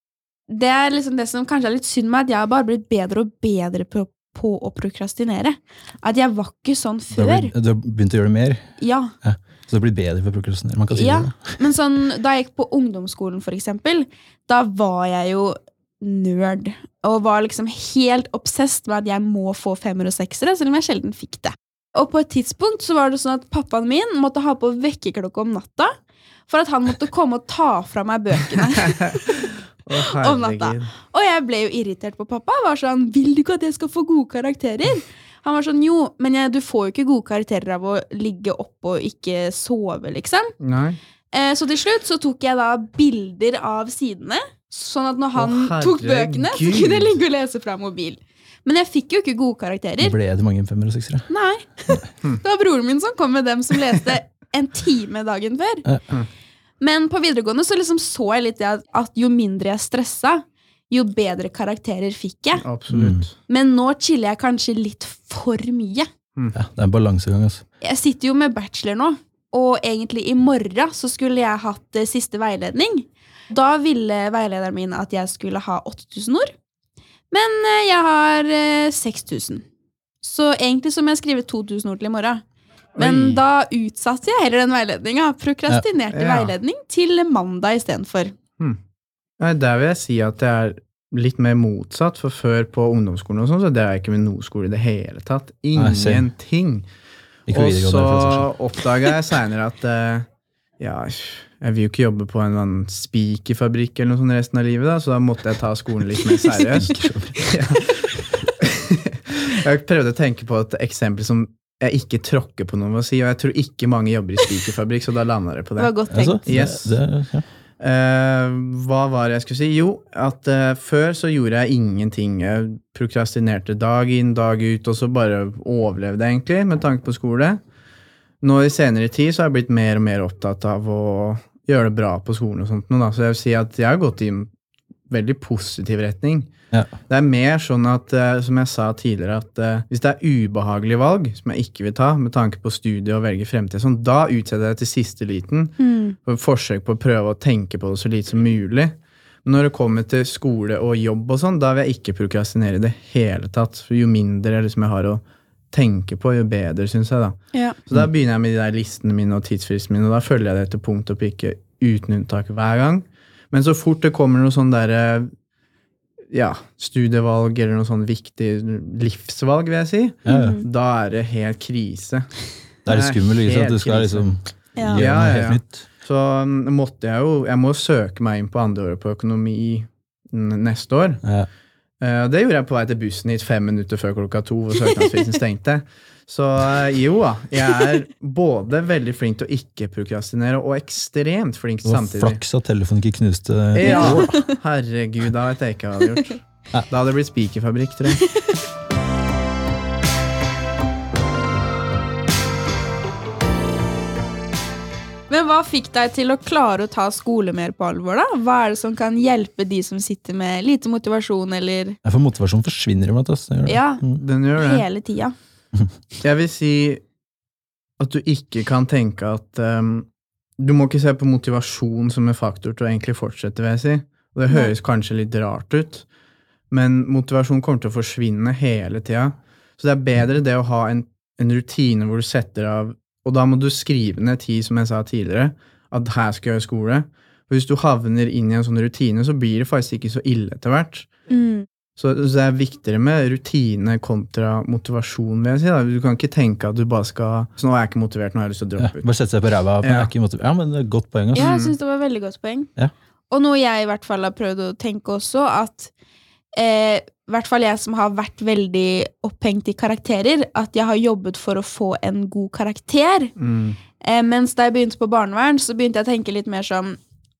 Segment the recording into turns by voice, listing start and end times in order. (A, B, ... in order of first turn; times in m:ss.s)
0:00.5-0:07.5 A
0:07.1-0:08.6 B
0:08.8-0:09.1 A
0:09.2-0:11.6 B
0:10.9-0:25.9 A
0:26.5-0:29.6 A
0:28.9-0:29.2 C
0:29.8-0:31.0 C
0:30.1-0:40.5 A
0:40.6-0:41.0 C
0:41.3-0:50.2 A
0:45.4-0:47.2 C
0:50.0-0:51.3 B
0:51.3-0:55.9 A
0:56.8-1:02.6 A
1:02.6-1:03.4 C
1:02.9-1:03.2 B
1:03.5-1:06.1 A
1:06.5-1:07.6 B
1:07.8-1:16.5 A
1:17.3-1:19.6 A
1:20.2-1:22.4 A
1:23.0-1:23.4 C
1:23.0-1:28.3 A
1:26.1-1:26.6 C
1:29.4-1:36.9 C
1:35.8-1:36.3 B
1:37.5-1:38.5 B
1:37.5-1:40.3 C
1:40.8-1:48.0 C
1:46.6-1:47.3 B
1:48.6-1:55.9 C
1:55.8-1:56.4 A
1:56.1-1:57.4 B
1:56.4-1:57.0 C
1:57.8-2:07.6 C
2:08.4-2:14.5 C
2:15.1-2:16.5 C
2:17.1-2:45.3 C
2:25.8-2:26.2 A
2:46.3-3:01.2 C
2:50.2-2:50.5 B
2:50.2-2:50.6 A
2:52.8-2:55.8 B
2:54.8-2:55.0 A
3:01.2-3:01.5 B
3:02.0-3:12.4 C
3:11.8-3:14.4 B
3:13.7-3:18.2 C
3:13.8-3:14.6 A
3:18.2-3:18.5 A
3:25.3-3:32.0 A
3:32.0-3:34.2 B
3:33.6-3:34.0 A
3:34.2-3:34.8 C
3:34.6-3:35.3 A
3:36.2-3:37.0 C
3:38.0-3:46.0 C
3:46.7-4:01.1 C
4:01.3-4:01.6 A
4:02.0-4:09.1 C
4:08.8-4:11.5 B
4:09.8-4:10.1 C
4:11.3-4:11.7 C
4:11.3-4:12.7 A
4:13.3-4:15.9 A
4:16.5-4:23.3 A
4:23.4-4:23.8 C
4:24.0-4:27.0 A